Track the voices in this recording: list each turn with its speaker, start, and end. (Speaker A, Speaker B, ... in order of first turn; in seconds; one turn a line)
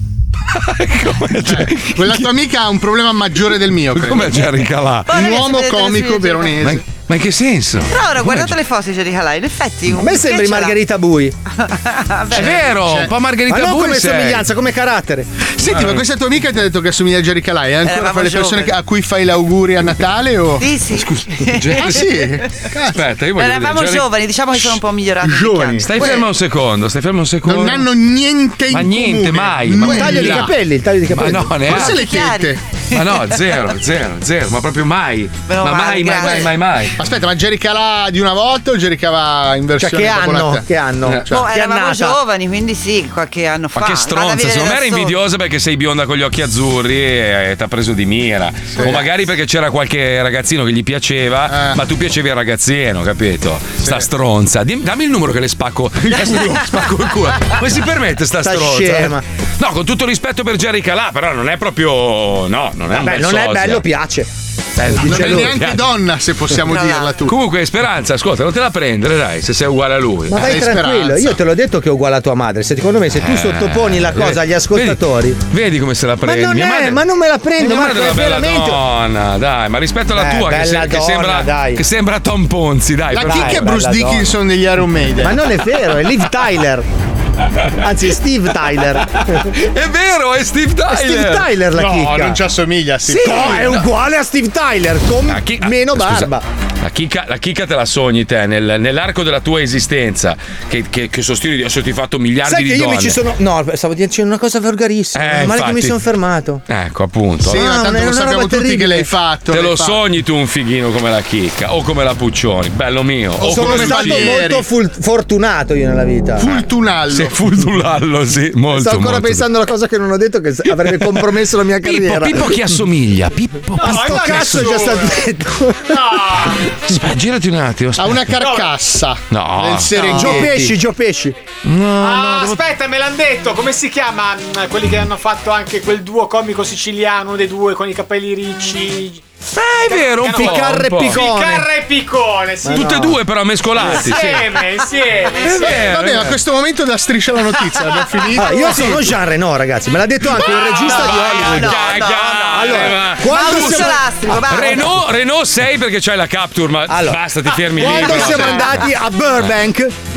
Speaker A: 0.5-2.3
Speaker B: 1.5-4.5
Speaker A: 3.9-5.2
Speaker C: 5.1-6.6
Speaker B: 5.1-6.8
Speaker A: 6.6-8.5
Speaker C: 7.9-10.8
Speaker D: 9.9-11.3
Speaker C: 11.6-12.7
Speaker A: 12.3-14.5
Speaker B: 12.3-13.1
Speaker D: 13.5-15.3
Speaker B: 15.6-20.7
Speaker A: 15.7-16.0
Speaker C: 17.9-18.8
Speaker C: 20.6-22.1
Speaker A: 21.0-22.2
Speaker B: 21.7-23.1
Speaker A: 22.9-24.1
Speaker C: 23.4-26.1
Speaker B: 25.2-26.3
Speaker A: 25.8-27.9
Speaker B: 27.4-30.5
Speaker A: 28.7-30.6
Speaker D: 29.8-31.7
Speaker A: 31.1-32.1
Speaker B: 31.7-32.6
Speaker C: 31.8-33.0
Speaker A: 32.9-37.0
Speaker C: 35.5-36.5
Speaker B: 36.2-40.7
Speaker D: 39.8-42.2
Speaker C: 41.3-45.2
Speaker A: 43.8-63.9
Speaker B: 48.7-49.1
Speaker B: 51.5-51.8
Speaker D: 58.4-59.2
Speaker D: 62.9-64.3
Speaker A: 64.8-65.8
Speaker D: 64.9-65.5
Speaker B: 65.0-67.4
Speaker C: 66.7-67.2
Speaker A: 67.3-70.7
Speaker D: 70.3-75.4
Speaker B: 70.3-71.3
Speaker A: 73.2-77.0
Speaker D: 76.2-78.8
Speaker A: 77.6-83.7
Speaker D: 80.1-81.8
Speaker B: 83.1-85.4
Speaker D: 83.2-84.3
Speaker D: 85.2-86.9
Speaker D: 87.8-89.4
Speaker A: 89.5-92.1
Speaker D: 90.9-92.4
Speaker B: 91.8-93.8
Speaker D: 93.1-96.4
Speaker A: 93.2-93.8
Speaker A: 95.3-103.2
Speaker D: 102.4-106.6
Speaker A: 105.2-106.0
Speaker A: 106.7-107.6
Speaker D: 107.4-109.1
Speaker B: 107.4-110.0
Speaker A: 109.5-114.4
Speaker B: 113.4-114.7
Speaker D: 113.4-116.5
Speaker B: 116.4-117.4
Speaker A: 116.5-119.5
Speaker D: 118.7-122.5
Speaker A: 120.8-125.0
Speaker D: 123.8-126.1
Speaker E: 123.8-125.2
Speaker E: 125.9-126.6
Speaker A: 126.7-128.4
Speaker B: 128.0-130.7
Speaker E: 128.4-128.7
Speaker A: 129.3-130.7
Speaker D: 130.0-131.4
Speaker A: 131.6-132.7
Speaker E: 132.0-139.3
Speaker A: 139.6-141.3
Speaker E: 139.9-142.9
Speaker D: 140.2-141.7
Speaker D: 142.6-143.2
Speaker A: 142.7-144.6
Speaker E: 143.8-145.8
Speaker D: 143.8-144.2
Speaker A: 145.4-146.4
Speaker B: 145.6-149.2
Speaker D: 148.3-154.9
Speaker A: 150.4-158.9
Speaker C: 151.0-155.0
Speaker D: 156.9-159.9
Speaker B: 157.8-158.7